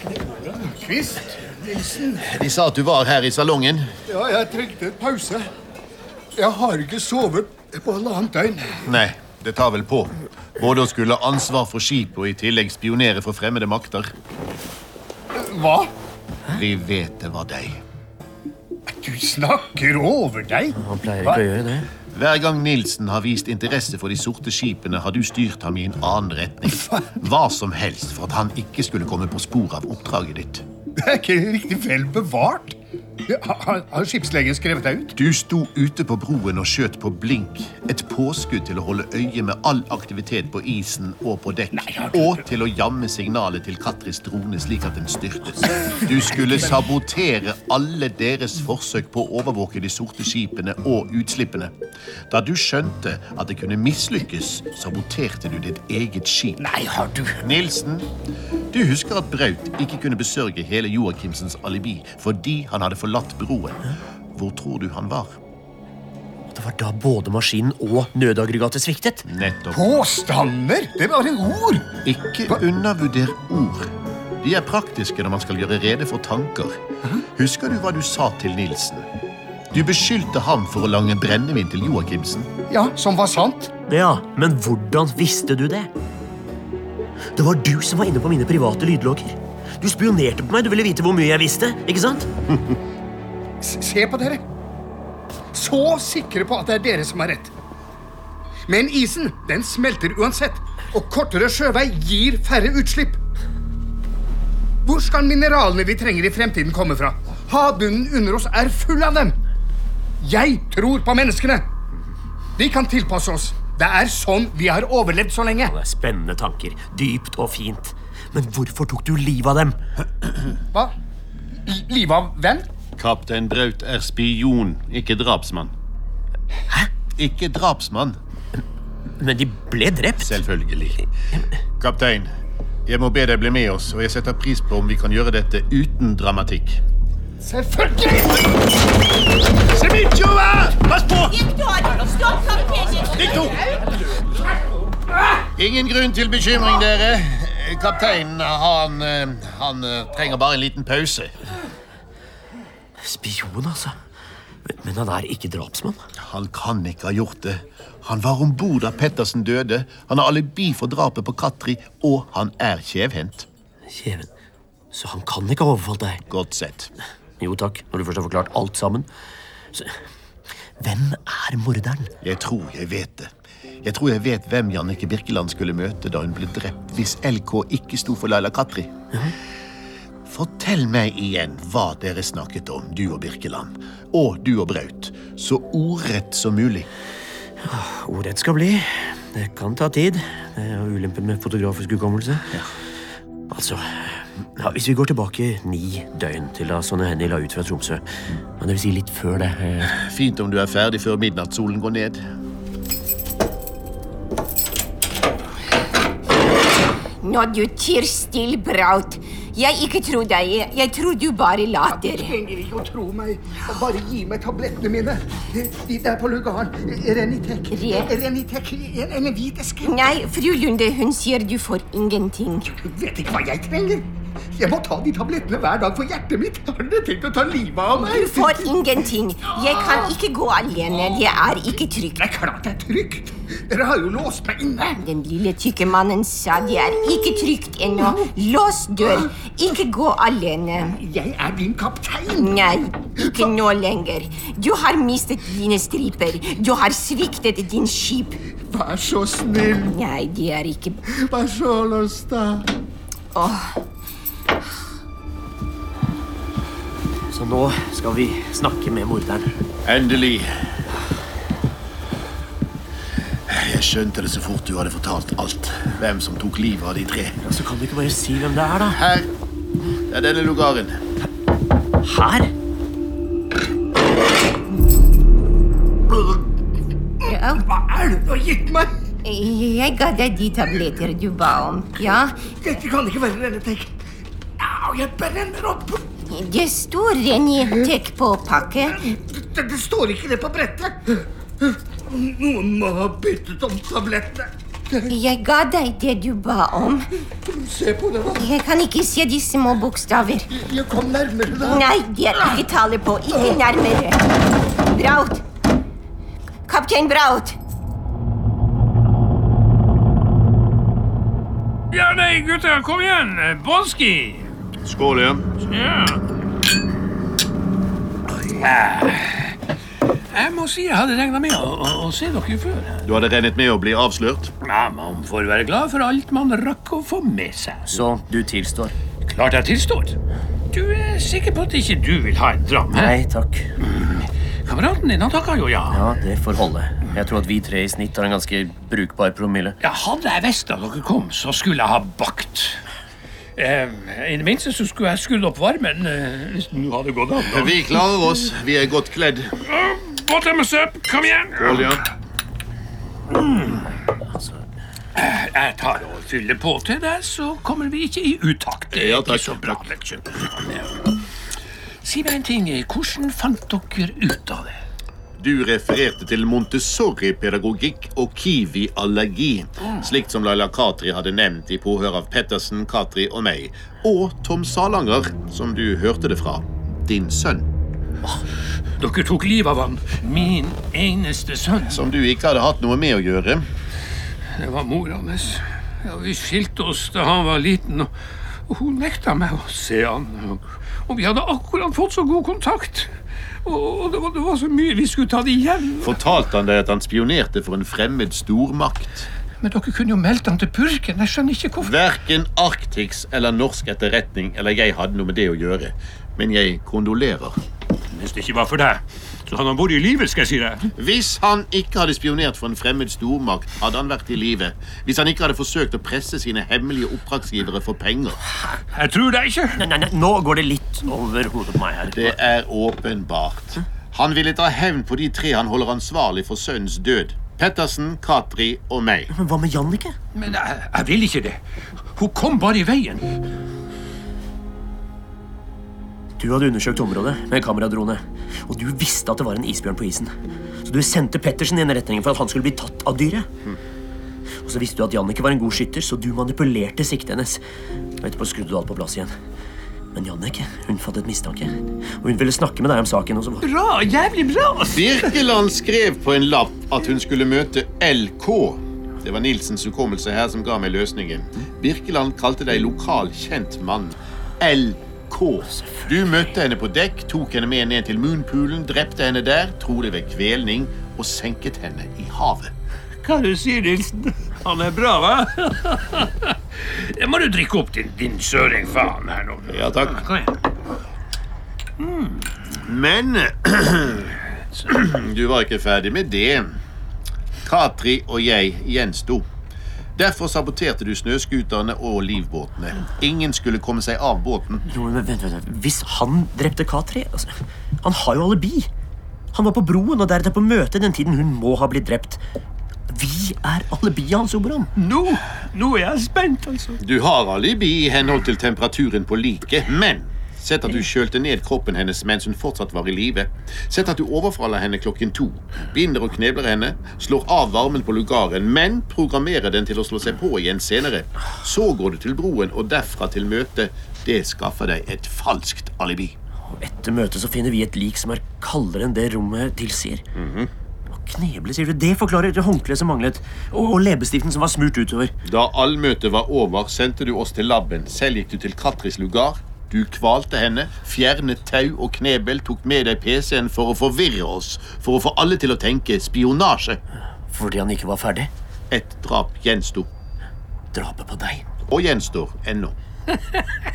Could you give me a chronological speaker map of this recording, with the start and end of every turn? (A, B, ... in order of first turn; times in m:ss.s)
0:00.2-0:02.3 A
0:02.2-0:03.9 B
0:04.1-0:05.4 A
0:06.4-0:08.9 A
0:08.9-0:14.1 B
0:15.3-0:15.9 A
0:16.5-0:17.8 B
0:18.9-0:21.4 A
0:20.7-0:21.9 C
0:22.1-0:30.6 B
0:26.8-0:27.1 A
0:31.0-0:35.1 A
0:35.2-0:51.7 B
0:41.7-0:42.4 A
0:52.3-0:56.6 B
0:56.6-0:57.4 A
0:57.4-0:58.1 B
0:58.7-1:03.8 B
1:04.3-1:05.4 B
1:06.5-1:09.3 C
1:09.3-1:10.0 B
1:09.7-1:12.0 A
1:12.0-1:13.9 B
1:14.4-1:16.8 B
1:17.4-1:19.1 B
1:19.7-1:22.5 B
1:22.7-1:23.7 A
1:23.9-1:25.9 C
1:27.4-1:32.3 C
1:33.6-1:34.4 A
1:35.5-1:37.5 A
1:38.7-1:43.2 A
1:44.8-1:49.4 A
1:50.2-1:51.7 A
1:52.6-1:55.7 A
1:55.6-1:59.8 C
2:01.7-2:02.7 A
2:03.0-2:05.7 B
2:07.2-2:08.2 B
2:09.2-2:10.4 C
2:10.2-2:11.0 B
2:11.8-2:12.3 B
2:12.9-2:16.8 B
2:17.4-2:18.5 A
2:19.7-2:21.3 B
2:21.3-2:23.3 D
2:23.2-2:23.6 B
2:25.6-2:31.3 B
2:33.0-2:34.0 C
2:34.7-2:36.0 C
2:36.2-2:43.5 B
2:43.9-2:44.3 C
2:44.9-2:46.2 C
2:46.3-2:46.9 B
2:47.4-2:49.1 C
2:49.7-2:50.0 C
2:50.8-2:52.1 C
2:52.2-2:53.3 B
2:53.8-2:58.9 B
3:00.3-3:06.9 B
3:07.6-3:12.5 C
3:13.5-3:18.0 C
3:18.6-3:19.9 C
3:19.9-3:22.2 B
3:27.2-3:32.4 D
3:31.9-3:40.1 A
3:37.7-3:38.1 D
3:39.8-3:42.8 D
3:42.7-3:50.1 A
3:48.0-3:52.2 D
3:52.2-3:55.0 A
3:55.0-4:01.0 D
3:57.9-3:58.3 A
4:01.0-4:03.5 A
4:02.4-4:08.4 D
4:08.7-4:10.0 A
4:09.9-4:11.0 D
4:11.1-4:12.7 A
4:13.3-4:13.8 D
4:17.3-4:19.5 C
4:19.8-4:20.5 B
4:23.5-4:27.4 B
4:27.4-4:29.0 C
4:28.9-4:29.3 B
4:30.1-4:31.0 B
4:32.0-4:32.5 C
4:36.1-4:36.4 A
4:37.2-4:38.9 A
4:37.3-4:37.7 D
4:39.2-4:42.5 D
4:42.5-4:43.9 A
4:44.6-4:46.0 A
4:46.3-4:49.1 D
4:48.9-4:55.1 A
4:55.1-4:57.1 D
4:57.5-4:58.5 A
4:58.4-5:00.5 D
5:00.5-5:02.6 A
5:01.6-5:04.3 D
5:03.3-5:03.6 A
5:04.9-5:05.4 D
5:06.7-5:07.6 D
5:11.9-5:14.5 E
5:14.8-5:15.5 B
5:15.6-5:16.2 E
5:18.6-5:19.5 E
5:20.3-5:23.0 E
5:23.0-5:24.5 B
5:24.6-5:28.0 E
5:27.9-5:28.9 C
5:29.2-5:30.2 E
5:30.7-5:33.1 E
5:32.9-5:33.7 C
5:33.9-5:36.1 E
5:35.9-5:39.8 C
5:39.8-5:42.8 E
5:43.6-5:47.9 E
5:47.4-5:49.5 B
5:49.6-5:52.0 E
5:51.6-5:52.0 B
5:53.4-5:53.7 E
5:55.2-6:00.9 E
5:58.9-6:00.2 B
6:02.0-6:04.8 E
6:05.4-6:17.7 B
6:19.0-6:22.0 E
6:21.9-6:23.7 B
6:24.6-6:28.1 E
6:28.7-6:33.1 E
6:33.6-6:36.2 E
6:36.0-6:39.3 B
6:39.6-6:42.0 E
6:41.8-6:47.6 B
6:48.1-6:50.9 E
6:51.0-6:58.4 B
6:58.9-6:59.8 E
6:59.8-7:02.4 C
7:02.1-7:09.3 B
7:09.3-7:10.2 C
7:10.3-7:11.6 E
7:12.2-7:13.3 E
7:16.4-7:23.5 C
7:24.6-7:27.6 C
7:28.2-7:29.3 C
7:30.1-7:33.7 C
7:33.6-7:35.4 E
7:34.9-7:52.7 B
7:53.2-8:00.6 E
7:59.7-8:00.2 B
8:02.0-8:02.4 E
8:02.8-8:04.4 B
8:04.9-8:06.8 B
8:07.6-8:09.4 B
8:10.2-8:14.8 B
8:14.9-8:18.9 C
8:19.5-8:22.4 C
8:23.1-8:24.9 C
8:25.0-8:27.0 E
8:27.0-8:46.4 B
8:46.7-8:50.2 C
8:50.4-8:50.7 B
8:51.1-8:55.3 C
8:55.5-9:07.0 B
9:07.5-9:08.5 C
9:08.9-9:10.1 B
9:10.9-9:11.7 C
9:11.9-9:13.0 B
9:13.4-9:13.6 E